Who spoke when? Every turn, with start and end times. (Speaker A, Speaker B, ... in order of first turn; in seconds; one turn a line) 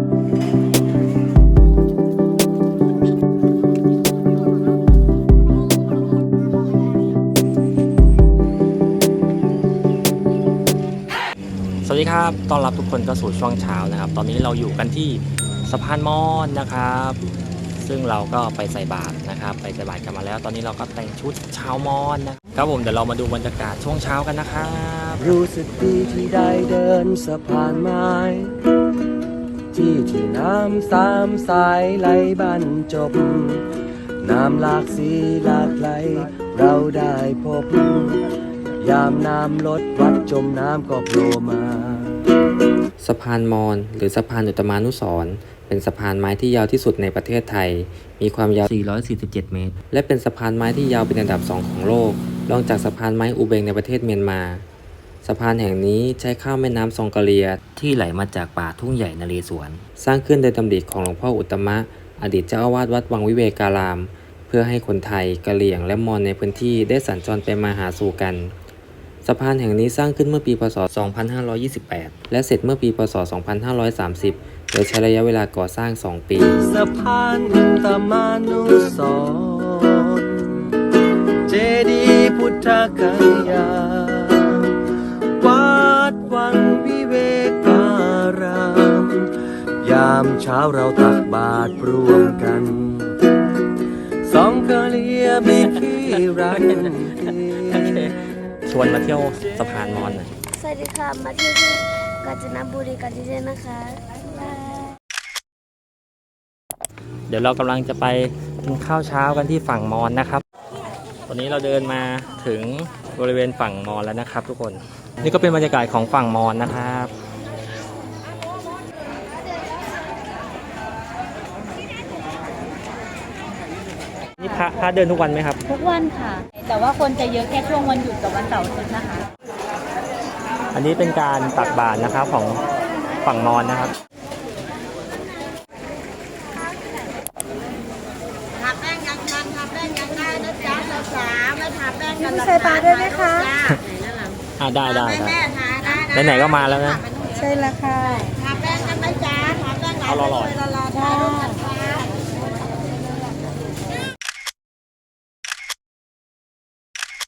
Speaker A: 11.8-17.2
Speaker A: 17.8-25.4
Speaker B: 25.2-28.6
Speaker B: 29.7-33.6
Speaker B: 34.2-38.2
Speaker B: 38.8-42.2
Speaker C: 43.0-54.6
Speaker C: 55.2-68.5
Speaker C: 69.2-76.6
Speaker B: 76.6-80.8
Speaker B: 81.5-84.8
Speaker B: 85.4-89.3
Speaker B: 89.8-93.6
Speaker B: 94.2-98.0
Speaker A: 97.7-98.1
Speaker A: 98.7-100.3
Speaker D: 100.5-104.9
Speaker A: 107.3-110.4
Speaker A: 111.3-117.1
Speaker A: 124.4-125.6
Speaker E: 125.7-129.3
Speaker A: 130.7-132.6
Speaker A: 133.2-133.9
Speaker E: 140.7-141.1
Speaker F: 142.1-143.5
Speaker A: 144.6-147.0
Speaker F: 147.4-148.5
Speaker A: 149.9-150.6
Speaker E: 150.9-151.7